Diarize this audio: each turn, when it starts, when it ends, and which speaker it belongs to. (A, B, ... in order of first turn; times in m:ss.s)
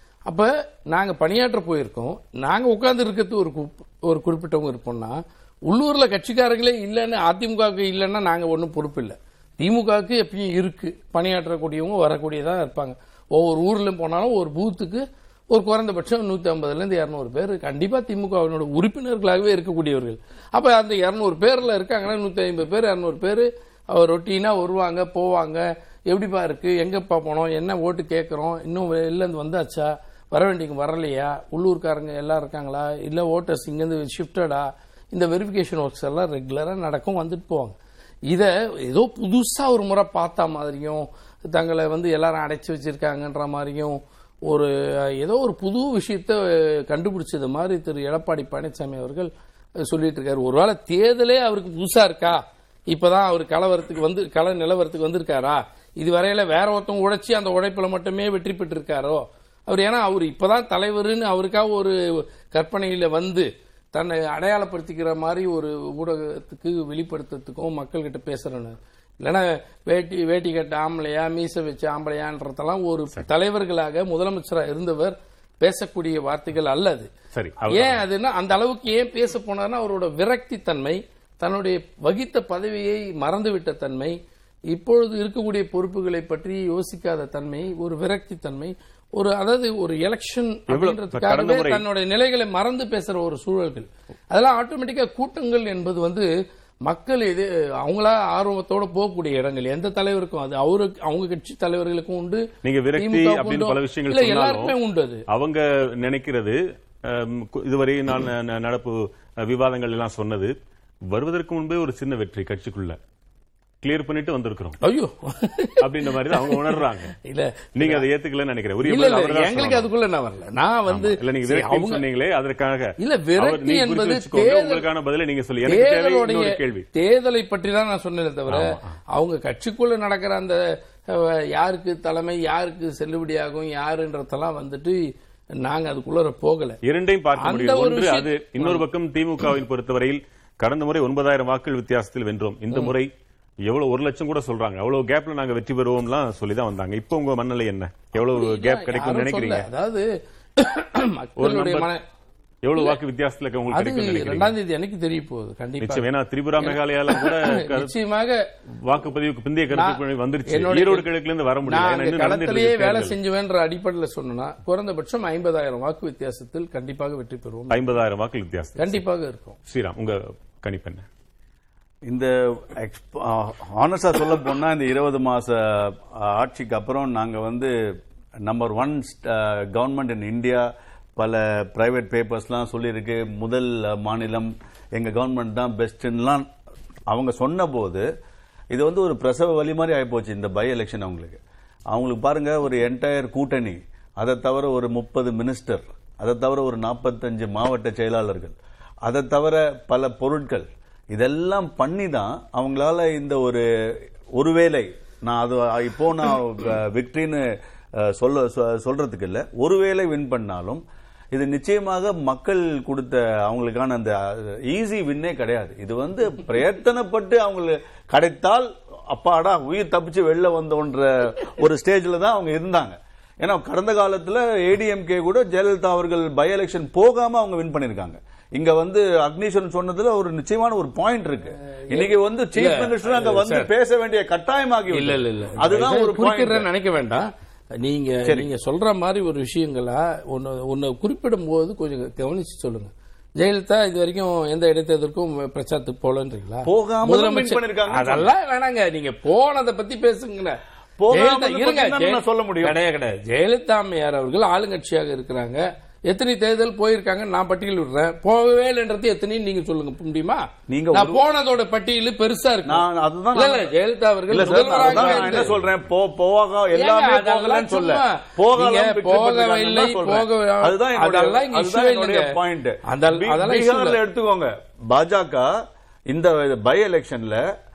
0:00.3-0:37.8 A
0:38.3-0:49.3 A
0:49.8-1:17.1 A
1:17.3-1:18.0 B
1:17.7-1:24.2 A
1:24.7-1:36.3 A
1:30.7-1:31.8 B
1:36.9-1:42.4 A
1:42.6-1:44.7 B
1:43.0-1:45.2 A
1:45.3-1:50.5 B
1:51.1-1:53.0 B
1:53.8-1:54.8 B
1:54.8-1:58.0 A
1:55.8-1:57.1 B
1:57.8-1:59.9 B
1:58.8-2:02.0 A
2:00.9-2:06.8 B
2:03.0-2:04.8 A
2:05.7-2:15.0 A
2:08.5-2:09.0 B
2:15.6-2:16.8 A
2:16.8-2:23.1 B
2:17.4-2:18.8 A
2:23.6-2:29.6 B
2:28.2-2:32.0 A
2:31.4-2:31.9 B
2:32.6-2:34.5 B
2:33.7-2:36.0 A
2:35.8-2:37.9 B
2:36.6-2:38.4 A
2:38.8-2:43.2 B
2:39.7-2:41.1 A
2:41.7-2:47.8 A
2:47.7-2:49.0 B
2:48.8-2:49.6 A
2:49.7-2:51.0 B
2:52.1-2:57.7 C
2:58.4-3:06.5 C
3:07.1-3:08.0 C
3:08.7-3:11.4 C
3:11.9-3:23.6 C
3:24.4-3:27.4 C
3:28.0-3:56.7 C
3:51.9-3:53.7 A
3:54.9-3:57.3 A
3:57.8-4:10.6 A
4:06.6-4:08.3 C
4:11.0-4:12.7 C
4:11.1-4:25.5 A
4:20.7-4:21.2 C
4:22.6-4:23.7 C
4:24.3-4:35.5 C
4:26.7-4:32.3 A
4:32.9-4:34.0 A
4:36.1-4:37.4 C